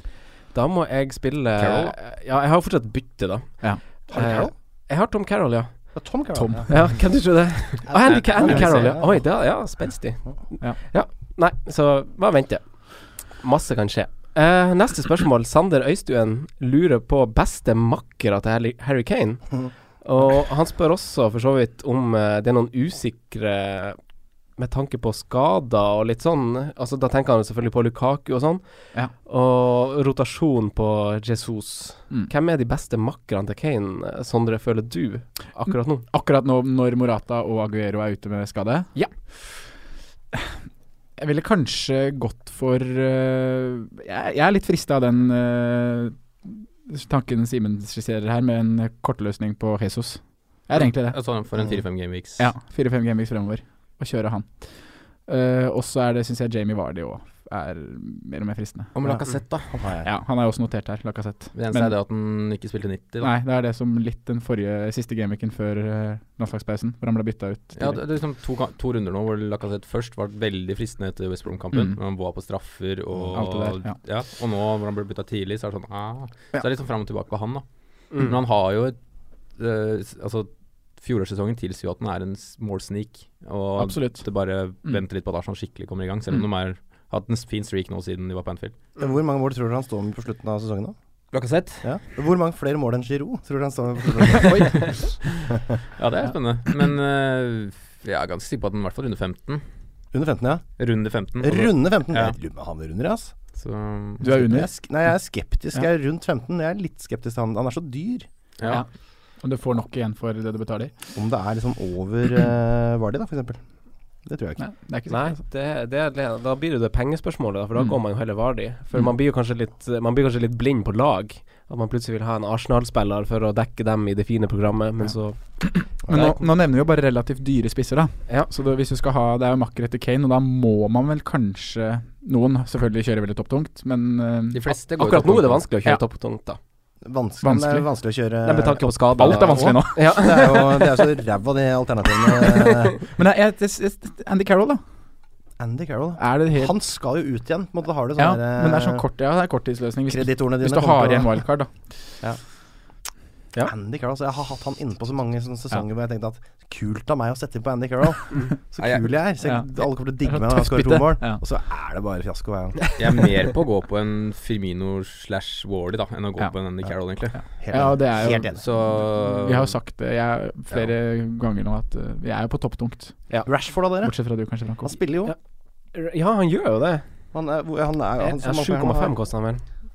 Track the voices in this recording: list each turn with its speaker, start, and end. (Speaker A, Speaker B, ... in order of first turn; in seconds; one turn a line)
Speaker A: 0.5-6.0
Speaker B: 1.6-1.9
Speaker C: 4.1-4.5
Speaker C: 5.9-6.7
Speaker D: 6.3-6.9
Speaker A: 6.7-24.0
Speaker C: 7.9-9.2
Speaker D: 8.4-9.0
Speaker A: 24.6-36.0
Speaker D: 35.7-38.9
Speaker D: 41.2-51.2
Speaker B: 50.7-52.5
Speaker D: 52.4-54.6
Speaker D: 55.2-59.0
Speaker B: 58.9-59.8
Speaker C: 59.0-60.1
Speaker D: 60.0-61.9
Speaker B: 61.5-63.4
Speaker D: 63.2-68.0
Speaker B: 67.7-79.0
Speaker D: 71.7-72.0
Speaker D: 73.3-74.0
Speaker B: 79.5-88.8
Speaker D: 83.8-84.3
Speaker C: 89.0-90.9
Speaker B: 91.3-91.9
Speaker C: 91.8-95.0
Speaker B: 96.0-99.6
Speaker C: 100.1-100.7
Speaker B: 100.8-102.4
Speaker C: 101.3-103.3
Speaker B: 103.5-104.3
Speaker D: 104.2-104.7
Speaker C: 104.2-108.3
Speaker B: 108.6-108.8
Speaker D: 108.7-110.9
Speaker C: 111.1-113.6
Speaker C: 114.2-114.6
Speaker D: 114.6-115.4
Speaker A: 115.1-126.4
Speaker D: 125.0-134.7
Speaker B: 134.5-135.7
Speaker A: 134.9-136.6
Speaker C: 137.0-143.0
Speaker D: 137.4-137.9
Speaker A: 138.4-141.0
Speaker D: 139.1-140.1
Speaker D: 143.2-144.8
Speaker C: 145.6-149.0
Speaker D: 146.2-146.7
Speaker D: 148.2-151.7
Speaker C: 150.1-151.4
Speaker C: 153.7-162.8
Speaker B: 158.8-159.1
Speaker D: 159.4-161.4
Speaker B: 162.9-167.4
Speaker D: 167.3-173.4
Speaker C: 167.5-168.6
Speaker B: 168.5-169.7
Speaker C: 173.4-174.1
Speaker D: 174.0-174.9
Speaker C: 174.8-175.3
Speaker A: 175.9-177.0
Speaker C: 177.3-179.2
Speaker A: 178.2-179.6